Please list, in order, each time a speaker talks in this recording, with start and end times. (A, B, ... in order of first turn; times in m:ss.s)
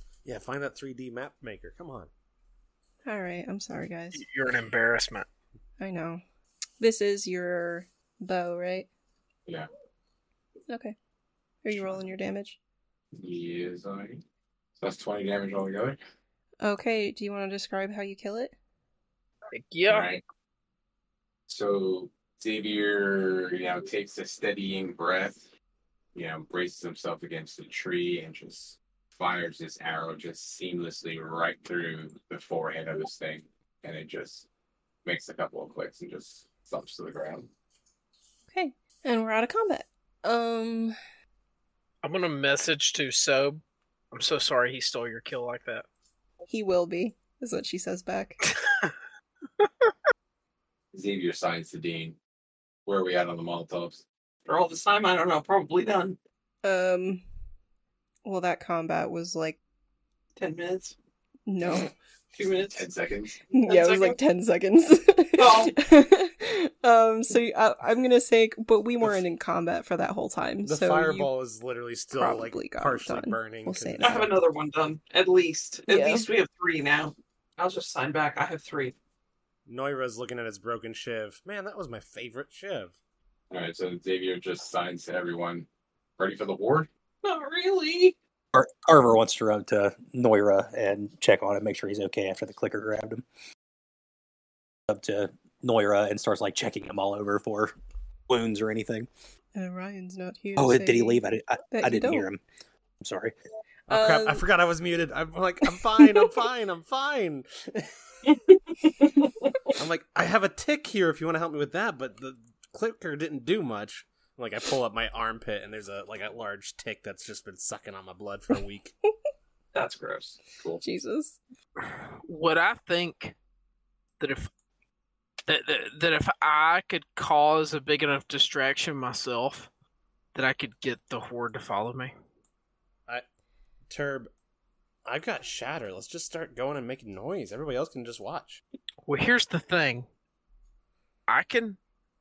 0:00.2-0:02.1 A
0:03.0-0:04.3 B
0:04.1-0:05.3 C
0:05.8-0:06.2 B
0:06.8-0:08.9 B
0:10.7-0:11.0 B
0:11.6-0:12.6 B
0:13.2-0:14.2 D
0:14.8-0:16.0 D
0:16.6-0:18.6 B
0:19.5-0:20.1 C
0:19.9-0:20.2 D
0:21.5-0:25.5 D
0:26.1-0:34.5 D
0:35.0-0:37.5 D
0:38.5-0:41.0 B
0:42.0-0:45.9 C
0:46.5-0:48.4 B
0:48.5-0:48.9 C
0:50.9-0:52.2 D
0:52.9-0:54.0 D
0:54.5-0:56.2 E
0:56.6-0:57.2 B
0:58.2-0:59.6 B
1:00.4-1:01.0 E
1:01.5-1:01.9 B
1:02.3-1:02.9 E
1:02.8-1:03.5 D
1:03.5-1:11.3 B
1:03.6-1:04.2 E
1:05.4-1:05.8 E
1:10.6-1:14.4 A
1:12.1-1:14.3 B
1:14.0-1:19.0 E
1:15.9-1:16.3 B
1:19.7-1:23.0 A
1:23.5-1:25.7 D
1:26.2-1:26.9 D
1:27.2-1:28.2 E
1:28.5-1:33.2 F
1:34.9-1:37.7 F
1:38.3-1:39.1 F
1:39.6-1:42.3 B
1:40.6-1:42.4 F
1:43.0-1:43.3 F
1:43.9-1:47.9 A
1:43.9-1:44.5 B
1:49.8-1:58.9 A
1:59.7-2:00.4 E
2:00.5-2:00.8 D
2:00.8-2:01.4 B
2:02.2-2:03.4 C
2:04.2-2:04.5 C
2:05.5-2:09.7 C
2:10.4-2:12.1 C
2:13.9-2:14.3 A
2:15.1-2:18.6 A
2:19.1-2:20.1 C
2:21.3-2:21.8 C